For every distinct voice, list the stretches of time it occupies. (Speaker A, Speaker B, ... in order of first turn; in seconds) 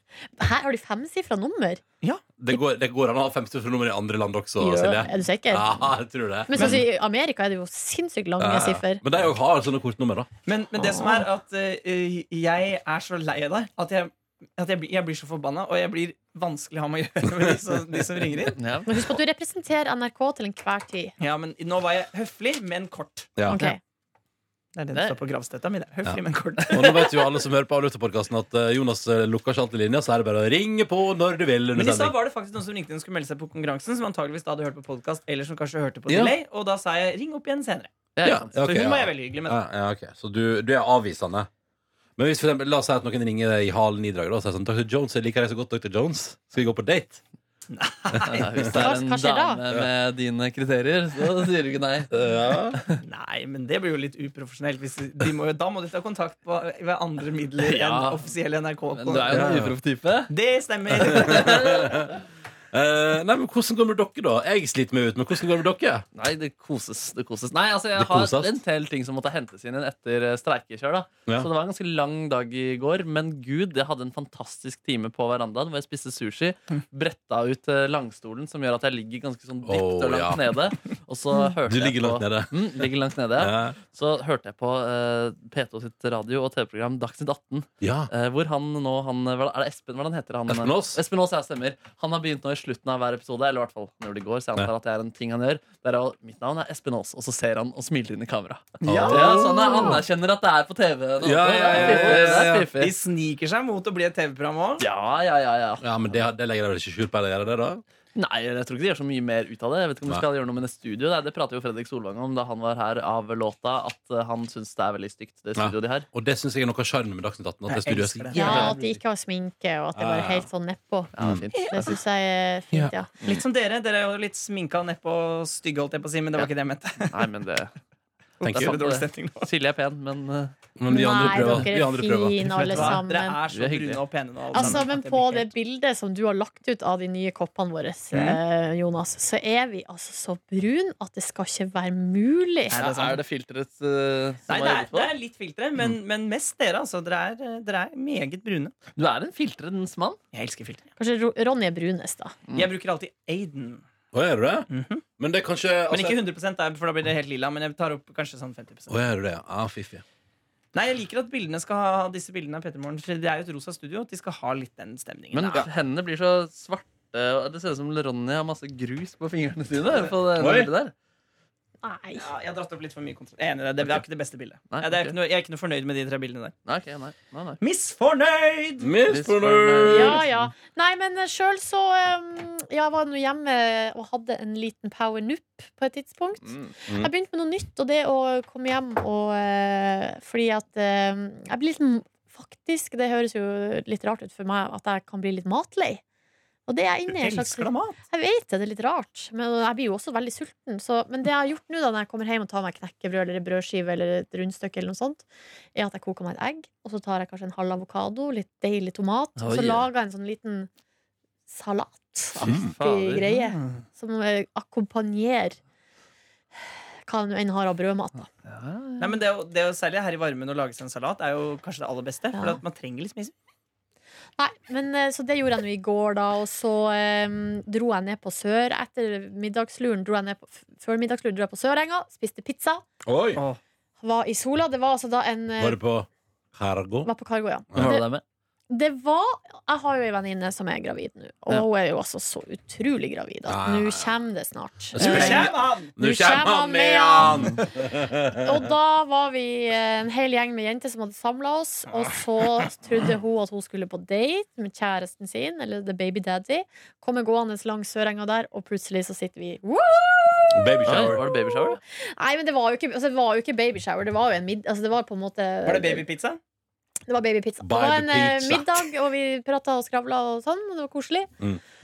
Speaker A: 0.4-1.8, 4.6-5.8, 6.5-9.0, 10.8-11.2, 18.9-21.1, 23.4-23.8, 48.7-49.6, 118.3-123.2, 130.9-133.4, 134.5-142.8, 151.0-152.4, 171.8-172.3, 179.8-196.0, 196.7-210.7, 211.5-215.6, 217.1-218.3, 222.3-222.6, 224.4-232.8, 234.0-235.8, 237.0-238.1, 238.7-247.6, 248.3-266.1, 267.1-271.3
Speaker B: 2.4-6.8, 8.4-10.3, 23.4-23.6, 26.1-32.1, 36.1-36.4, 38.2-41.5, 42.2-47.2, 48.2-48.9, 52.1-52.8, 59.3-59.7, 60.9-62.1, 62.7-66.1, 68.0-68.6, 79.6-80.6, 81.7-83.8, 87.8-88.1, 90.5-91.0, 98.8-100.0, 101.2-102.7, 105.8-107.8, 115.5-118.3, 119.9-120.5, 121.2-121.5, 128.4-128.8, 130.8-132.9, 154.1-154.7, 155.2-156.2, 158.9-160.0, 170.4-170.7, 178.8-180.2, 212.4-212.7, 233.1-233.4, 235.6-237.1, 237.7-238.0, 243.5-244.2, 244.9-248.6, 260.5-261.2, 267.6-268.9
Speaker C: 6.5-6.8, 10.5-18.6, 21.2-23.4, 24.8-27.0, 31.8-37.9, 38.6-39.6, 47.7-48.5, 53.0-59.3, 60.3-61.6, 98.8-99.9, 101.7-104.9, 117.7-118.7, 123.3-127.3, 128.4-129.5, 132.6-135.5, 138.1-138.4, 142.7-143.2, 144.5-148.8, 150.3-150.9, 152.5-153.8, 154.7-155.0, 155.9-158.9, 160.8-165.7, 172.2-176.6, 177.6-178.9, 197.1-198.0, 219.0-223.3, 245.0-245.9, 251.9-252.5, 265.6-266.4
Speaker D: 18.6-18.9, 26.7-27.1, 38.1-38.5, 48.3-52.1, 57.6-58.3, 58.9-60.3, 61.0-61.9, 66.2-103.0, 104.8-106.2, 108.2-116.1, 118.3-119.0, 121.1-122.0, 127.1-127.7, 128.4-130.6, 131.2-131.7, 132.6-134.8, 142.7-145.1, 148.9-150.2, 165.3-170.9, 174.7-175.2, 176.7-177.6, 179.1-180.5, 186.5-186.7, 209.4-209.9, 212.5-213.4, 218.4-219.2, 237.8-238.2, 245.0-245.3, 260.9-261.8